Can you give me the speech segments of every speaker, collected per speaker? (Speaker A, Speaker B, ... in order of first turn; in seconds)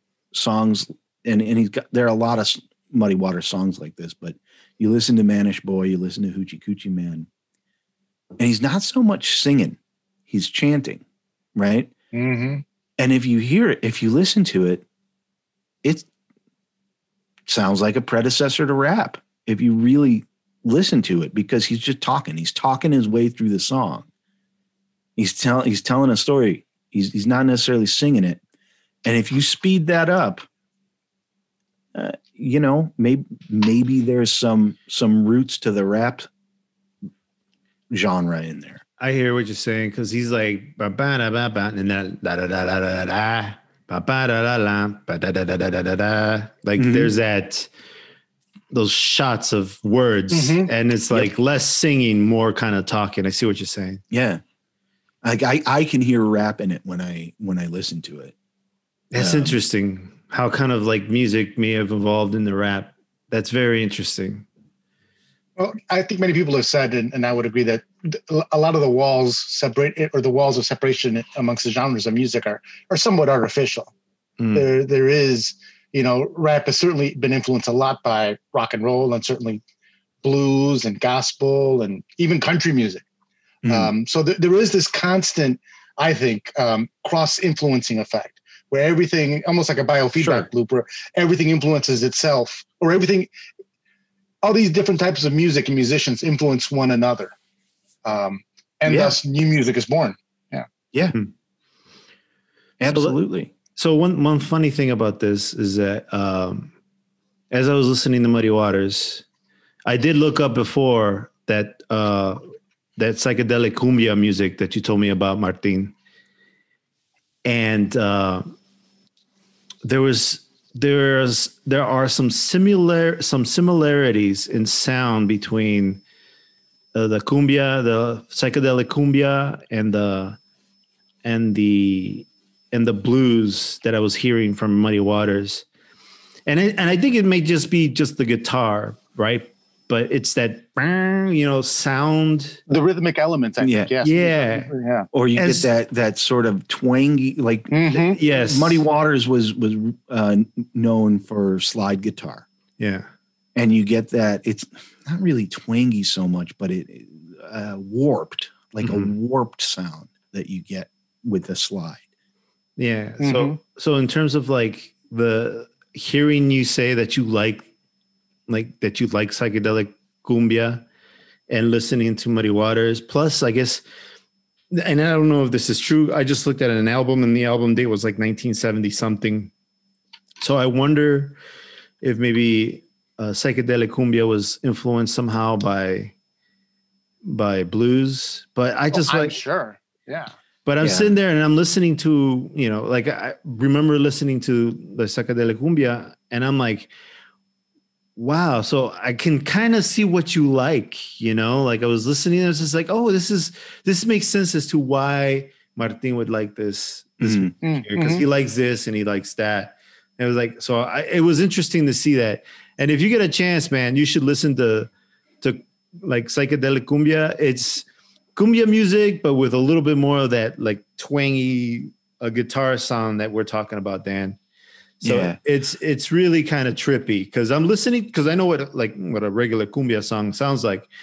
Speaker A: 0.3-7.3, 8.4-11.0, 11.6-11.9, 13.0-14.8, 15.8-16.1, 17.5-24.1, 25.2-28.4, 29.0-30.4, 31.9-36.3, 37.9-38.8, 46.8-47.1, 54.1-54.4, 55.2-58.4, 59.2-59.5, 83.6-83.9, 90.2-90.5, 98.9-99.2, 102.8-103.5, 143.6-143.9, 145.1-152.5, 153.6-162.0, 190.8-191.1, 207.2-207.5, 225.0-225.4
Speaker B: 12.1-12.6, 50.3-50.7, 65.6-73.9, 74.5-79.6, 80.2-83.0, 83.7-93.3, 94.4-97.3, 98.0-100.7, 142.7-145.1, 147.7-148.2, 163.2-163.6, 188.9-190.3, 207.6-208.2
Speaker C: 39.0-47.7, 48.7-54.0, 59.1-64.5, 74.4-74.7, 102.8-103.2, 103.8-106.7, 107.5-109.2, 109.8-112.4, 113.0-115.9, 117.5-118.5, 119.8-126.0, 126.9-130.4, 131.2-135.7, 136.5-142.6, 144.0-144.7, 145.3-145.7, 148.2-148.8, 152.8-153.1, 158.8-159.1, 162.8-167.7, 168.5-170.8, 171.5-173.8, 174.7-179.5, 180.4-181.4, 182.0-186.1, 187.2-189.3, 190.7-196.9, 198.2-214.9, 215.4-224.4, 225.0-230.9